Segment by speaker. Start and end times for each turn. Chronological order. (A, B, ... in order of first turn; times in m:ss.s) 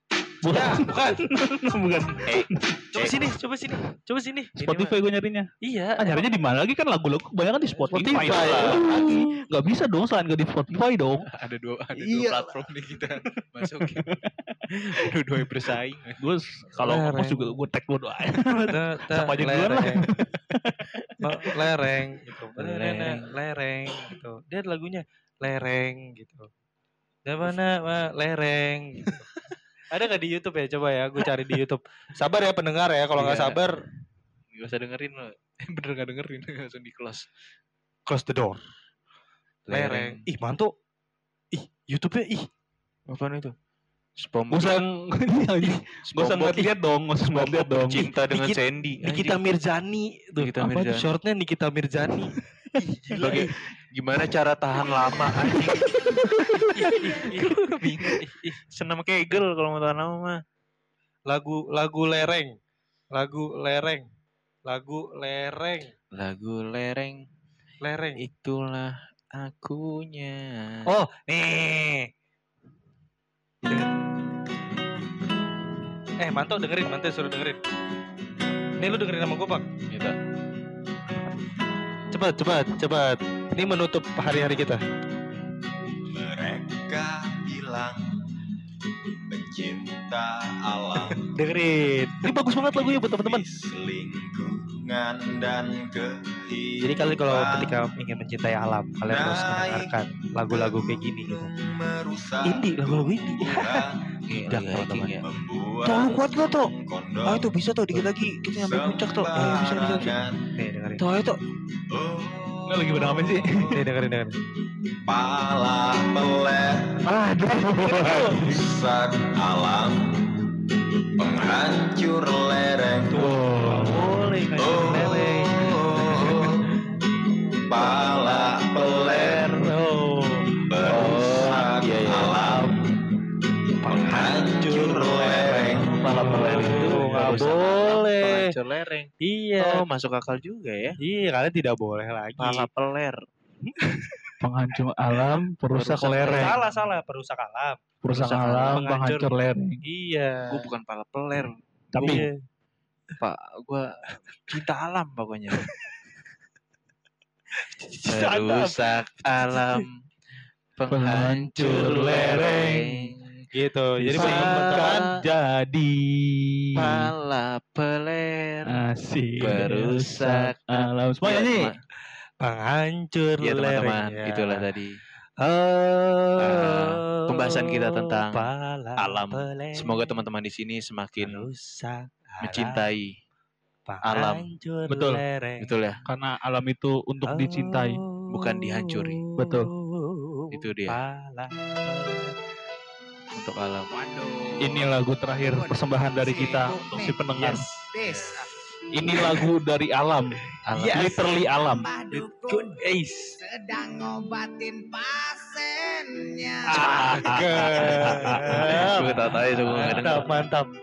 0:00.4-0:02.8 A
0:00.5-0:01.2 B
0:02.2-0:03.2 C
0:02.9-0:04.9 B
0:04.6-0:11.3 A
0:05.6-0:06.3 B
0:07.9-0:09.2 B
0:07.9-0:09.2 C
0:11.3-0:16.2 C
0:11.9-0:12.5 A
0:13.6-0:15.1 A
0:16.2-0:21.2 A
0:16.8-0:17.6 B
0:18.7-0:20.0 B
0:21.2-0:26.5 B
0:22.6-0:23.3 C
0:27.2-0:29.2 B
0:29.9-0:33.8 B
0:33.1-0:33.7 C
0:34.5-0:37.3 C
0:38.1-0:38.6 B
0:39.7-0:40.2 C
0:39.7-0:40.7 B
0:41.5-0:42.5 B
0:43.1-0:43.5 C
0:44.2-0:44.8 C
0:44.5-0:48.1 A
0:45.8-0:46.7 C
0:47.3-0:49.4 C
0:48.0-0:52.4 B
0:50.4-0:51.1 C
0:52.9-0:53.4 B
0:53.1-0:53.4 A
0:53.2-0:56.2 C
0:55.3-0:57.2 A
0:56.7-0:58.6 B
0:57.1-1:00.4 C
1:01.3-1:02.5 B
1:03.1-1:04.0 B
1:04.7-1:05.9 B
1:06.1-1:07.3 C
1:07.8-1:08.2 B
1:08.2-1:10.9 C
1:10.9-1:12.1 B
1:13.6-1:13.9 B
1:16.2-1:17.6 B
1:18.8-1:19.6 B
1:19.9-1:20.2 C
1:22.1-1:24.8 B
1:26.1-1:28.2 D
1:29.3-1:31.3 D
1:31.2-1:33.4 B
1:32.2-1:33.5 A
1:32.7-1:37.8 D
1:36.8-1:41.5 B
1:39.0-1:44.1 D
1:42.4-1:43.8 B
1:44.3-1:45.2 C
1:44.4-1:45.2 B
1:45.2-1:47.5 D
1:45.8-1:46.7 C
1:47.2-1:50.1 C
1:48.5-1:50.5 D
1:49.4-1:51.0 B
1:51.0-1:51.4 C
1:51.9-1:53.8 D
1:52.7-1:53.8 A
1:53.7-1:54.4 B
1:55.1-1:57.0 D
1:57.0-1:58.6 A
1:57.8-1:58.5 B
1:57.9-2:00.3 D
2:01.2-2:03.3 D
2:03.1-2:06.4 B
2:03.2-2:04.1 A
2:04.6-2:06.6 D
2:07.6-2:09.7 D
2:09.5-2:10.4 B
2:10.7-2:12.9 D
2:10.8-2:12.7 A
2:13.8-2:18.4 B
2:13.8-2:16.7 D
2:15.9-2:18.0 A
2:16.1-2:21.0 C
2:19.2-2:19.8 B
2:21.0-2:22.6 B
2:22.4-2:23.2 C
2:23.6-2:24.2 B
2:24.4-2:26.6 A
2:25.7-2:26.6 C
2:26.2-2:27.8 B
2:28.0-2:29.8 A
2:28.1-2:28.8 C
2:28.6-2:29.3 B
2:29.8-2:30.7 B
2:30.5-2:32.2 C
2:31.9-2:32.2 A
2:32.0-2:32.4 B
2:33.2-2:35.7 C
2:37.6-2:39.8 B
2:38.1-2:39.9 C
2:40.8-2:43.1 C
2:40.9-2:43.0 A
2:43.5-2:45.0 B
2:44.0-2:47.1 A
2:44.2-2:45.0 C
2:46.8-2:48.7 C
2:48.6-2:51.7 A
2:49.4-2:51.8 C
2:52.4-2:54.7 B
2:53.4-2:55.0 C
2:55.4-3:00.2 B
2:56.4-3:01.5 C
3:01.2-3:02.8 B
3:02.4-3:03.1 C
3:03.9-3:05.7 B
3:04.1-3:04.4 C
3:04.9-3:05.2 A
3:05.6-3:06.0 C
3:06.1-3:08.0 A
3:07.3-3:12.3 B
3:08.3-3:09.2 C
3:09.4-3:09.7 A
3:10.5-3:11.0 C
3:13.3-3:14.0 C
3:14.0-3:14.8 D
3:14.6-3:17.6 A
3:15.4-3:17.2 E
3:17.4-3:17.8 B
3:17.9-3:18.5 E
3:18.1-3:18.4 C
3:18.9-3:20.4 A
3:19.1-3:19.4 E
3:20.7-3:21.2 C
3:20.8-3:21.3 B
3:20.9-3:21.9 A
3:21.2-3:22.8 E
3:22.2-3:23.4 B
3:23.4-3:28.5 E
3:26.6-3:29.0 A
3:26.8-3:30.7 B
3:28.0-3:30.5 C